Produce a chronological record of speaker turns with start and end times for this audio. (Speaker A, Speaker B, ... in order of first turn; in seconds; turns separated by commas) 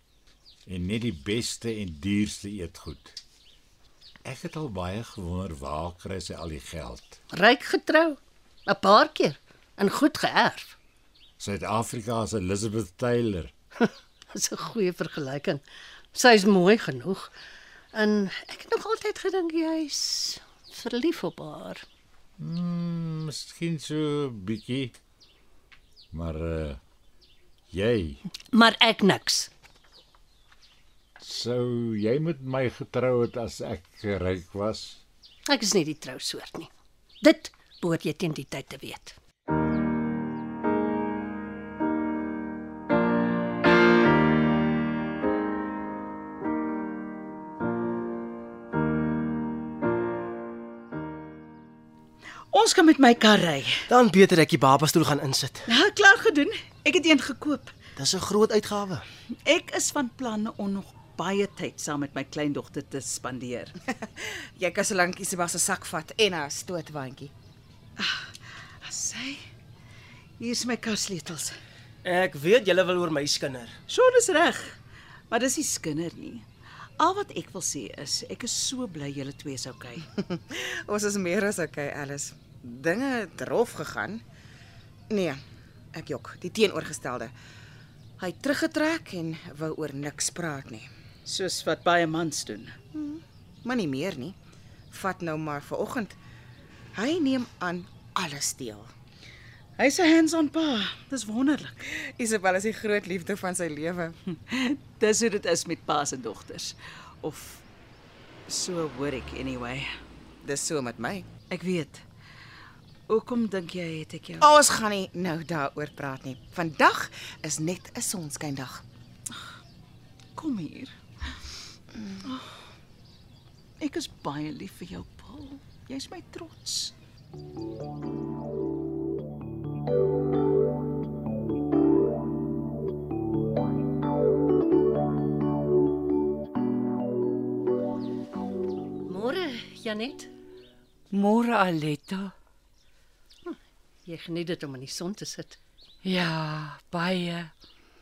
Speaker A: 0.7-3.2, Speaker A: 4.2-7.2, Speaker B: 7.3-10.7, Speaker A: 11.4-13.5, Speaker B: 14.3-15.6, Speaker B: 16.1-17.3, Speaker B: 17.9-21.8, Speaker A: 22.4-24.9, Speaker A: 26.1-26.8, Speaker A: 27.7-28.2, Speaker B: 28.5-29.5, Speaker A: 31.2-35.0, Speaker B: 35.5-36.7, Speaker B: 37.2-39.1, Speaker C: 52.5-53.8, Speaker D: 53.9-55.6, Speaker C: 55.7-57.7, Speaker D: 58.0-59.0, Speaker C: 59.5-63.7, Speaker E: 63.9-67.3, Speaker C: 68.0-68.3, Speaker C: 68.8-69.4, Speaker C: 70.4-71.5, Speaker D: 72.0-73.7, Speaker C: 73.9-74.7, Speaker C: 75.3-76.4, Speaker C: 77.0-80.0, Speaker E: 80.1-84.2, Speaker E: 85.1-85.4, Speaker E: 85.9-87.3, Speaker E: 88.2-90.9, Speaker C: 91.2-92.7, Speaker E: 92.9-94.3, Speaker E: 94.9-96.2, Speaker E: 96.9-98.9, Speaker C: 99.8-101.8, Speaker E: 101.9-104.2, Speaker C: 104.5-107.6, Speaker C: 108.5-109.9, Speaker E: 110.4-111.3, Speaker C: 111.5-112.0, Speaker C: 113.1-114.5, Speaker E: 114.4-118.8, Speaker C: 120.4-120.9, Speaker C: 123.8-126.9, Speaker B: 139.1-140.3, Speaker F: 141.1-142.3, Speaker B: 143.4-145.6, Speaker F: 146.0-147.5